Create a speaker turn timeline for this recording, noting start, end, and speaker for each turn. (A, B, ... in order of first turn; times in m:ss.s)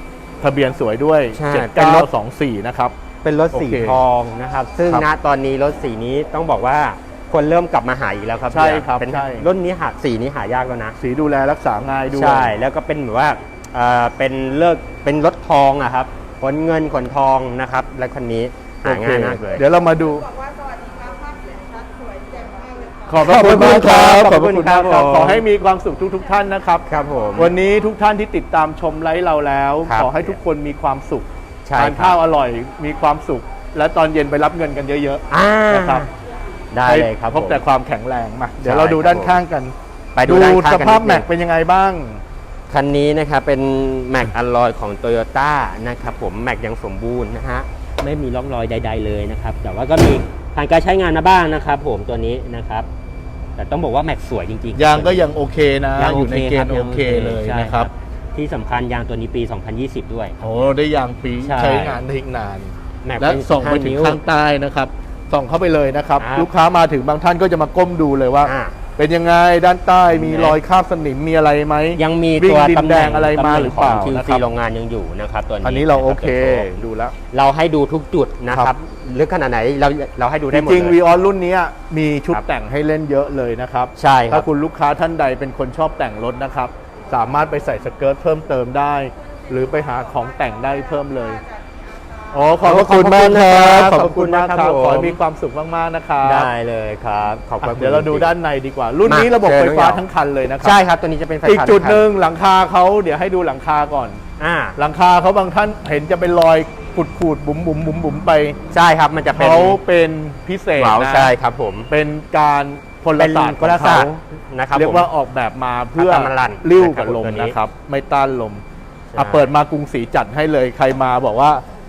0:00.4-0:02.9 A
0:01.3-0:02.1 B
0:03.2-0:11.0 B
0:03.5-0:04.0 A
0:08.5-0:09.5 A
0:11.0-0:12.6 A
0:12.1-0:19.6 B
0:18.8-0:20.2 A
0:19.6-0:23.4 C
0:23.1-0:36.0 A
0:23.2-0:25.4 B
0:26.9-0:27.5 B
0:29.8-0:30.4 B
0:31.6-0:32.2 B
0:35.3-0:36.1 B
0:36.7-0:37.6 B
0:36.8-0:39.7 A
0:38.6-0:39.4 B
0:40.1-0:41.3 B
0:40.2-0:42.2 A
0:42.7-0:52.9 B
0:53.6-0:55.2 B
0:54.7-0:57.9 A
0:56.0-1:00.4 B
1:00.4-1:14.4 A
1:01.4-1:02.0 B
1:03.0-1:04.2 B
1:06.2-1:06.5 B
1:08.4-1:08.8 B
1:10.1-1:10.6 B
1:12.0-1:16.8 B
1:15.6-1:17.2 A
1:17.3-1:21.0 B
1:20.5-1:31.4 A
1:24.0-1:24.5 B
1:29.2-1:32.8 C
1:32.3-1:36.5 A
1:32.6-1:35.2 B
1:36.2-1:38.3 B
1:37.6-1:40.8 A
1:39.0-1:40.0 B
1:40.6-1:42.0 B
1:41.4-1:44.2 A
1:44.4-1:44.8 B
1:44.8-1:48.6 A
1:48.7-1:49.8 B
1:49.3-1:51.3 A
1:50.8-1:51.9 B
1:51.9-1:54.1 A
1:53.2-1:55.1 B
1:54.7-1:58.6 A
1:56.0-1:57.6 B
1:59.1-1:59.5 B
1:59.2-2:01.6 A